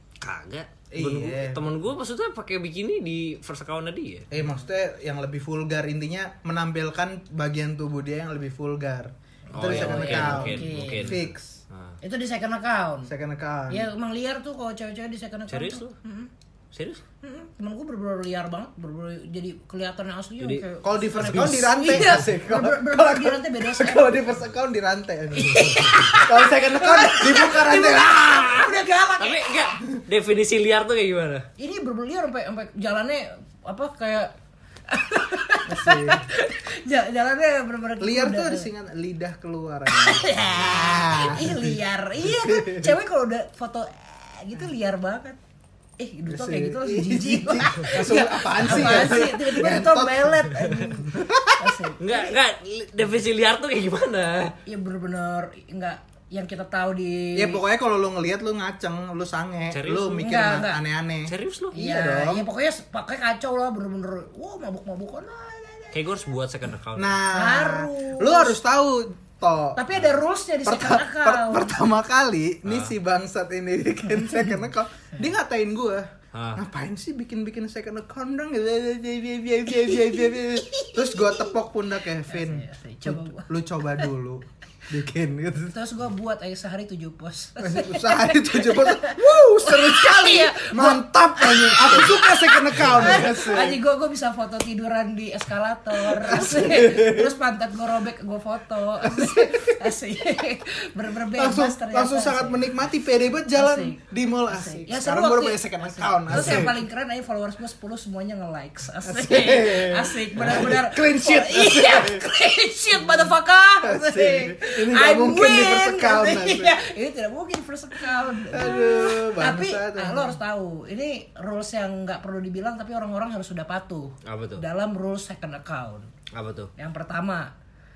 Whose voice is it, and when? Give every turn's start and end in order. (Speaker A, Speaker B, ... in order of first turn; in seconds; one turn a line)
Speaker A: 0.2-4.3
Speaker B: 0.9-1.7
Speaker B: 4.3-11.6
Speaker C: 9.5-11.2
Speaker A: 9.5-12.0
Speaker C: 12.0-13.1
Speaker B: 13.1-13.9
Speaker C: 13.7-16.3
Speaker A: 15.5-16.0
Speaker A: 16.7-17.0
Speaker C: 17.2-24.3
Speaker B: 20.8-28.5
Speaker C: 25.3-29.7
Speaker A: 28.1-31.5
Speaker C: 31.6-34.4
Speaker C: 34.9-38.7
Speaker B: 35.7-36.2
Speaker B: 38.0-41.7
Speaker C: 39.9-45.4
Speaker B: 42.3-43.0
Speaker C: 46.0-52.3
Speaker B: 46.3-51.8
Speaker A: 52.0-54.6
Speaker C: 54.7-57.6
Speaker B: 57.4-62.5
Speaker A: 59.7-60.3
Speaker C: 60.2-60.8
Speaker A: 61.3-61.8
Speaker C: 61.7-66.0
Speaker A: 65.9-67.2
Speaker B: 67.0-69.8
Speaker C: 67.3-68.6
Speaker C: 69.8-71.8
Speaker B: 70.7-85.8
Speaker A: 72.7-72.9
Speaker A: 76.3-76.6
Speaker C: 79.7-81.5
Speaker C: 82.3-84.1
Speaker C: 85.7-102.7
Speaker B: 87.6-93.8
Speaker B: 96.1-97.3
Speaker B: 99.1-99.6
Speaker B: 101.4-106.8
Speaker C: 103.5-126.1
Speaker B: 109.0-112.2
Speaker B: 113.8-116.8
Speaker B: 118.5-120.4
Speaker A: 124.2-124.6
Speaker A: 126.3-126.7
Speaker C: 126.8-127.5